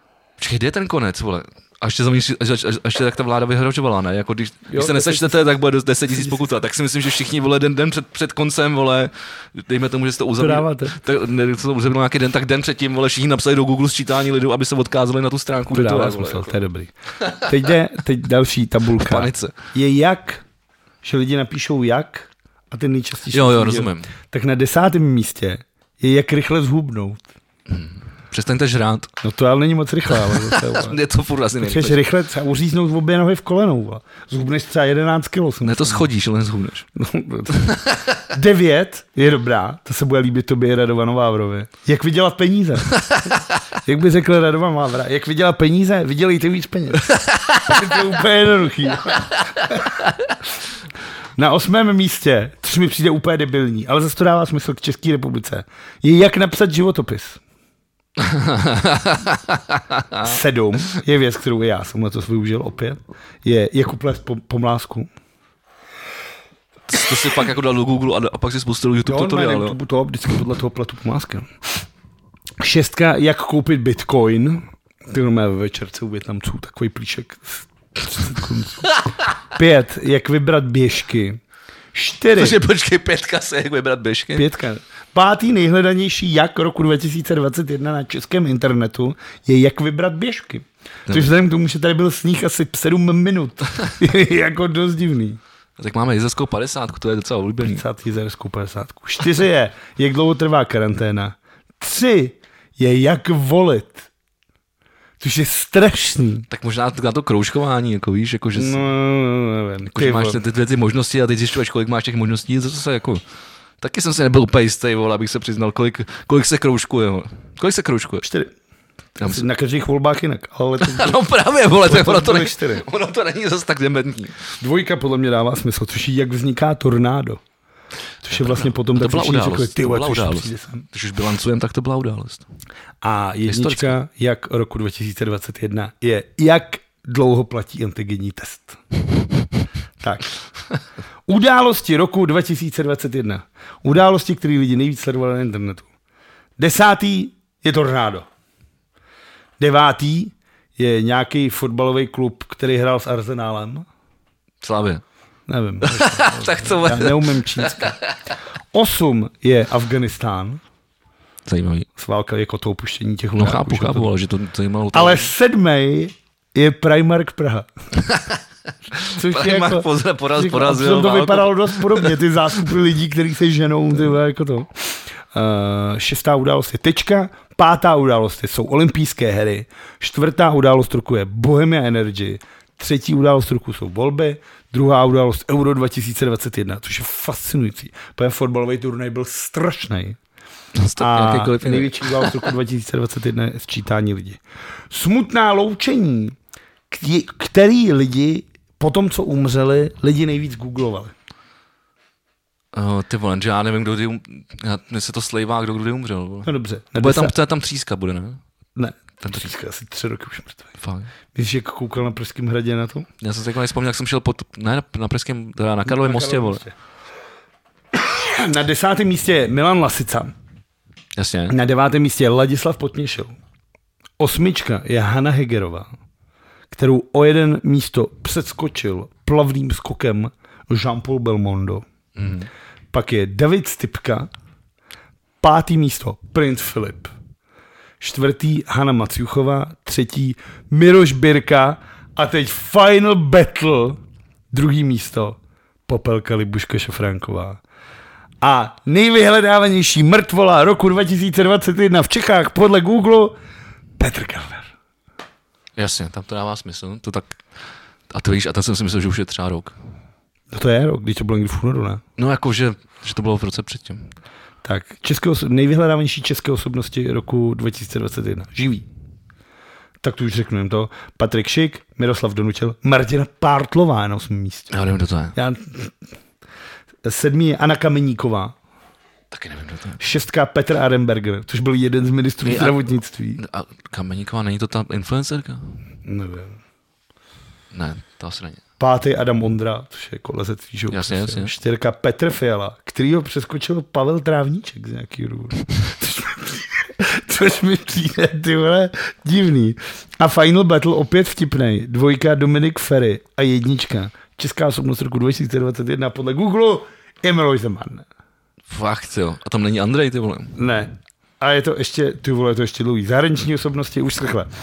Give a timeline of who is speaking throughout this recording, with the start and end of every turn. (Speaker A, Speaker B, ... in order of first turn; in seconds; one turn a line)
Speaker A: 0.4-16.6
Speaker B: 4.7-5.6
Speaker B: 6.1-6.4
Speaker B: 10.4-11.0
Speaker B: 15.7-20.4
Speaker A: 19.0-19.6
Speaker B: 21.0-27.2
Speaker A: 23.3-24.1
Speaker A: 27.7-29.1
Speaker B: 29.2-31.0
Speaker A: 30.2-32.0
Speaker B: 31.6-36.1
Speaker A: 35.6-36.9
Speaker B: 37.0-50.1
Speaker A: 37.5-38.2
Speaker A: 42.9-43.5
Speaker A: 47.1-47.8
Speaker B: 51.4-57.4
Speaker A: 58.2-60.4
Speaker B: 60.2-65.1
Speaker A: 66.9-69.8
Speaker B: 69.1-71.5
Speaker B: 72.6-78.9
Speaker B: 79.5-81.4
Speaker B: 81.9-82.6
Speaker A: 82.4-84.5
Speaker B: 84.3-95.4
Speaker A: 95.8-97.8
Speaker B: 97.6-104.1
Speaker B: 105.2-106.5
Speaker A: 106.5-108.8
Speaker B: 108.6-110.4
Speaker A: 109.9-113.2
Speaker A: 113.8-118.3
Speaker B: 118.2-118.5
Speaker A: 119.2-119.5
Speaker B: 119.2-121.2
Speaker A: 120.8-124.4
Speaker B: 121.8-122.8
Speaker B: 124.6-127.4
Speaker B: 128.2-130.9
Speaker A: 128.3-132.5
Speaker B: 133.0-138.8
Speaker A: 133.5-134.0
Speaker B: 140.0-140.3
Speaker B: 141.3-145.9
Speaker B: 146.6-148.3
Speaker B: 149.6-153.9
Speaker A: 154.6-155.0
Speaker B: 155.5-158.0
Speaker A: 155.8-158.2
Speaker B: 158.7-160.6
Speaker A: 161.5-161.9
Speaker B: 162.0-164.1
Speaker A: 163.4-165.3
Speaker B: 164.9-167.7
Speaker A: 168.0-168.4
Speaker A: 168.9-172.6
Speaker B: 169.1-190.2
Speaker A: 190.8-192.5
Speaker B: 191.0-196.3
Speaker B: 196.9-201.1
Speaker A: 202.7-208.4
Speaker B: 206.4-207.3
Speaker B: 208.8-210.7
Speaker A: 209.2-209.5
Speaker A: 210.8-211.1
Speaker B: 211.3-213.1
Speaker A: 213.2-216.6
Speaker B: 215.9-216.7
Speaker B: 217.9-220.3
Speaker A: 221.2-221.6
Speaker B: 221.5-223.4
Speaker B: 224.2-225.9
Speaker B: 226.7-231.9
Speaker A: 232.2-232.5
Speaker B: 232.9-234.3
Speaker B: 235.4-237.1
Speaker B: 238.0-244.0
Speaker B: 244.5-247.6
Speaker B: 248.4-253.4
Speaker B: 254.0-254.7
Speaker A: 255.8-257.4
Speaker A: 258.1-259.8
Speaker B: 260.5-262.0
Speaker A: 262.2-264.1
Speaker B: 264.6-268.9
Speaker B: 270.0-274.7
Speaker A: 274.7-275.4
Speaker B: 275.4-275.9
Speaker B: 277.0-278.6
Speaker A: 279.3-280.0
Speaker B: 280.0-283.4
Speaker A: 282.4-282.8
Speaker A: 283.4-285.7
Speaker B: 286.1-286.6
Speaker A: 287.7-288.6
Speaker B: 288.8-308.1
Speaker A: 290.9-291.5
Speaker A: 308.7-310.6
Speaker B: 310.6-314.5